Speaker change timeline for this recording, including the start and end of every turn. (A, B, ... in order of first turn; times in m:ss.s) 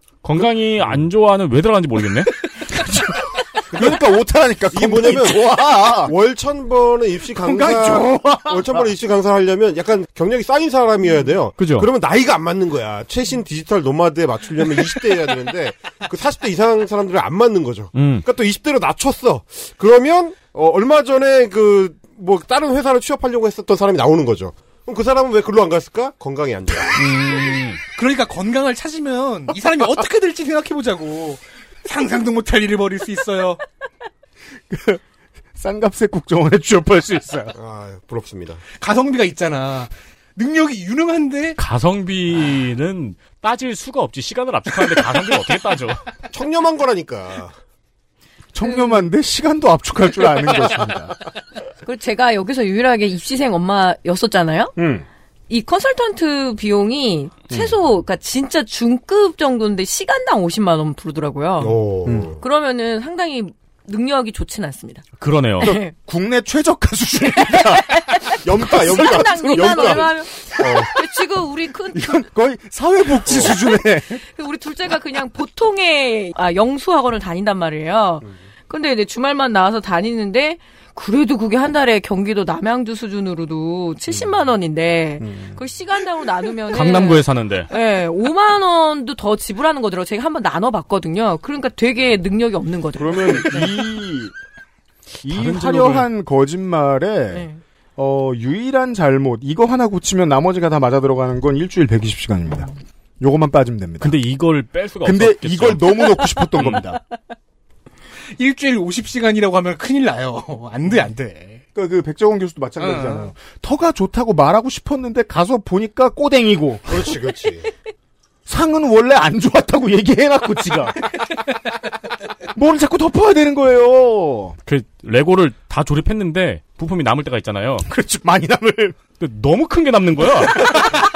0:00.2-0:02.4 A
0:02.7-0:06.1 B
0:03.7-0:04.0 C
0:04.7-0:27.0 C
0:07.4-0:08.9 B
0:11.6-0:11.9 A
0:17.9-0:18.2 A
0:27.0-0:27.8 A
0:27.9-0:33.6 D
0:34.7-0:35.0 B
0:35.6-0:37.6 B
0:37.5-0:38.6 C
0:38.8-0:41.6 D
0:41.6-0:46.0 A
0:46.3-0:47.5 C
0:48.5-0:51.2 B
0:48.7-0:49.0 E
0:51.8-0:54.7 E
0:54.8-0:55.0 B
0:55.5-1:01.8 E
1:01.6-1:02.4 C
1:02.0-1:02.3 B
1:02.4-1:05.1 E
1:05.2-1:05.8 A
1:05.6-1:05.9 E
1:05.6-1:10.1 B
1:07.5-1:08.1 E
1:08.4-1:11.0 C
1:08.9-1:12.2 E
1:11.9-1:14.2 B
1:13.2-1:13.6 C
1:14.2-1:33.7 E
1:25.2-1:25.6 B
1:26.7-1:27.7 A
1:33.0-1:34.3 B
1:35.2-1:44.2 B
1:35.3-1:36.1 A
1:37.3-1:37.6 E
1:44.0-1:46.8 A
1:45.0-1:47.0 B
1:48.4-1:51.6 D
1:51.7-1:57.1 B
1:52.8-1:53.3 D
1:56.8-1:57.7 C
1:58.4-2:01.1 B
2:02.5-2:04.6 B
2:04.6-2:07.9 A
2:07.8-2:09.0 B
2:09.2-2:10.9 A
2:10.5-2:10.8 B